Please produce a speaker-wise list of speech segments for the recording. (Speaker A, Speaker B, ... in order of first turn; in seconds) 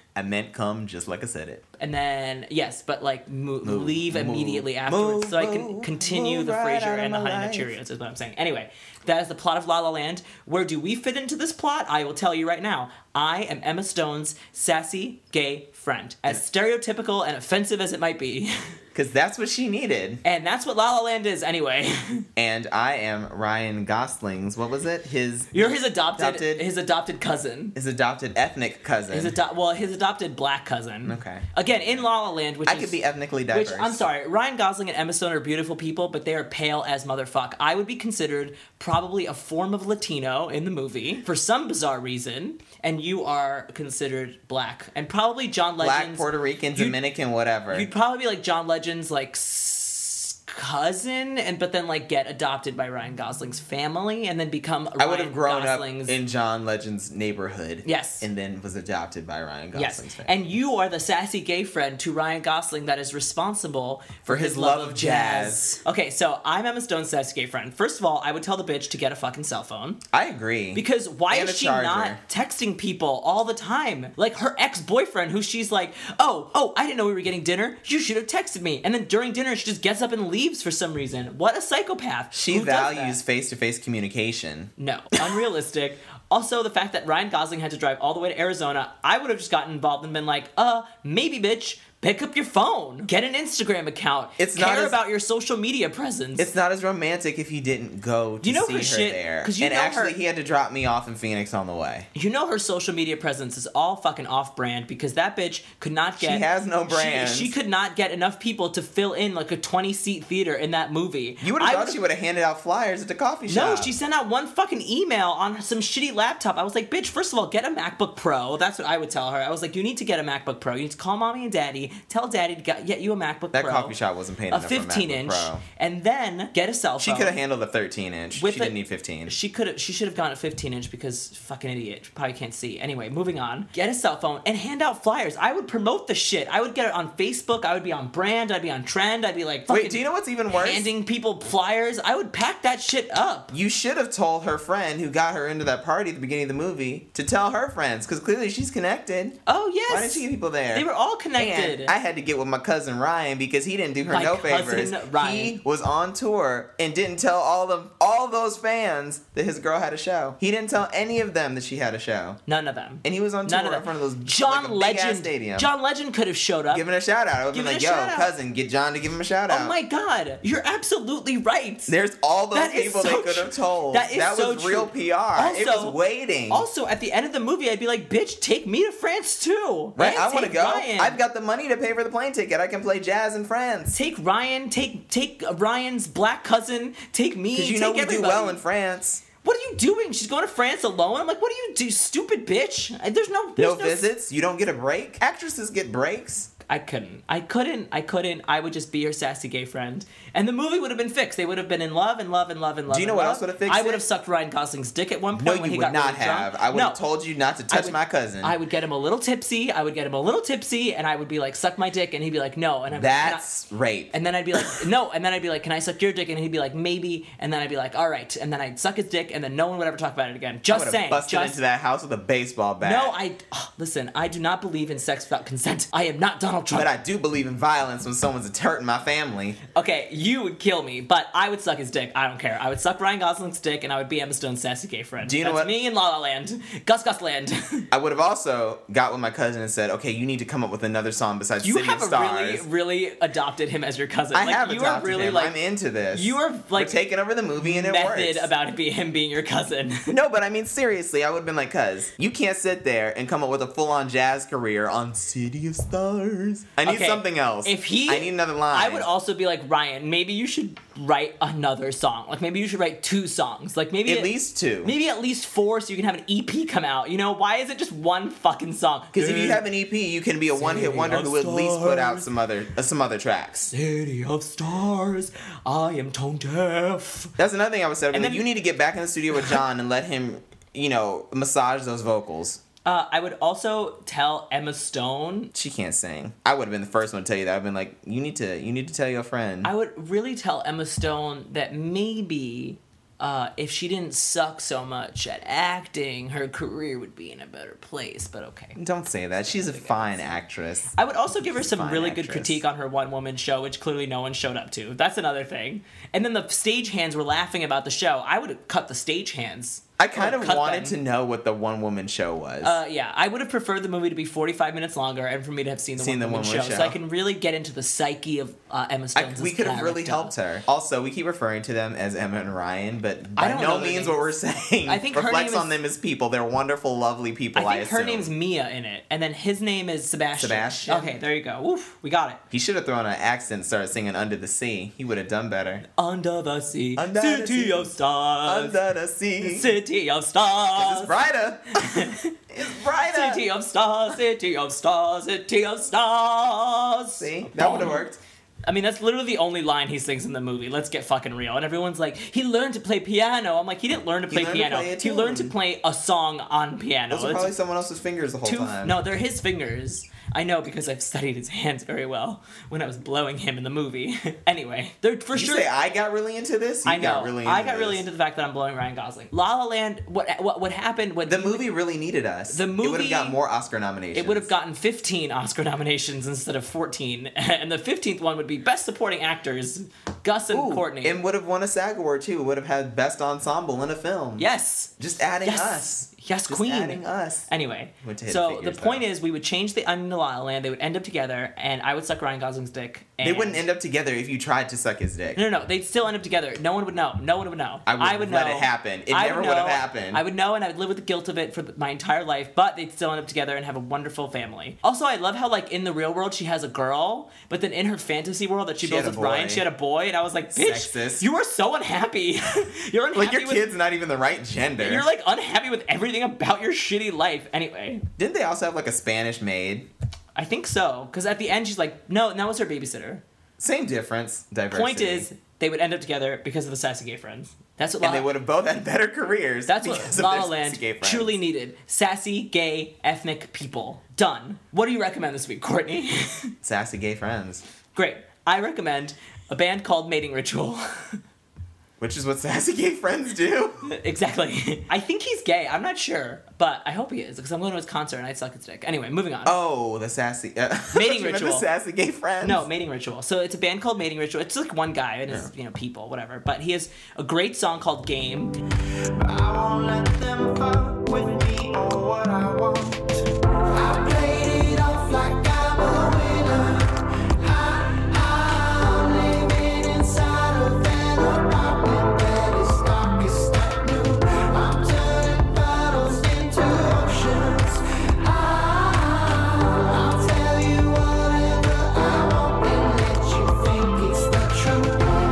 Speaker A: 0.1-1.6, 3.6-7.7, 18.9-20.2, 22.4-26.7, 27.8-29.4, 31.1-32.1, 32.6-34.0, 45.8-47.9, 55.0-60.4, 64.3-65.8, 70.1-72.2, 82.3-85.3, 94.4-95.0, 96.4-102.1, 106.2-107.5, 111.4-113.9, 123.5-125.6, 127.0-129.3, 139.7-140.9, 143.5-162.4, 163.0-165.7, 166.7-169.8, 171.9-176.7, 180.0-184.0, 187.5-189.2, 193.6-196.5, 202.9-204.1, 205.3-208.6, 212.9-214.8, 220.7-223.2, 226.7-229.6, 235.2-235.7, 237.9-242.7, 244.3-248.5, 250.1-259.1, 264.1-264.9, 269.1-273.7, 277.4-282.6, 285.5-289.7, 298.8-302.6, 310.0-312.8, 316.0-317.0, 319.1-328.3, 330.4-331.2, 332.5-335.9, 337.0-337.9, 338.4-339.8, 340.8-343.4, 347.2-348.2, 354.3-355.6, 357.1-359.0, 365.3-368.1, 371.3-374.5, 380.5-387.5, 388.0-389.1, 393.2-395.4, 397.9-400.2, 408.8-409.7, 410.5-411.2, 413.1-415.1, 418.2-419.9, 423.6-425.3, 428.0-431.4, 436.6-437.6, 442.0-443.9, 449.4-452.7, 459.3-463.1
Speaker B: 1.8-18.8, 20.2-22.3, 25.5-27.8, 29.1-47.0, 47.7-56.2, 57.9-58.3, 59.8-70.0, 70.7-83.2, 84.8-96.5, 98.4-100.2, 102.1-112.0, 113.5-123.9, 124.5-127.4, 128.3-143.5, 149.5-151.9, 154.1-155.6, 162.5-166.9, 167.5-168.3, 169.5-171.9, 172.5-176.0, 176.5-181.2, 183.9-188.6, 189.4-194.1, 196.7-207.0, 207.7-213.4, 214.1-221.6, 222.8-226.9, 229.7-237.9, 241.6-245.5, 246.1-247.0, 247.6-250.2, 256.8-269.6, 270.5-272.3, 273.7-277.4, 278.1-278.4, 282.9-285.5, 289.6-298.8, 299.5-300.2, 300.9-311.0, 312.6-320.3, 323.4-324.3, 324.9-325.8, 327.6-332.4, 336.0-338.8, 339.4-341.1, 341.8-348.0, 348.6-357.5, 358.4-365.7, 366.9-371.6, 372.5-373.4, 374.1-381.2, 384.4-384.9, 385.4-393.6, 395.4-413.6, 414.8-418.1, 420.4-423.2, 424.7-428.3, 429.7-436.5, 437.9-441.2, 443.8-449.6, 450.9-451.7, 452.4-458.6
Speaker C: 463.7-485.1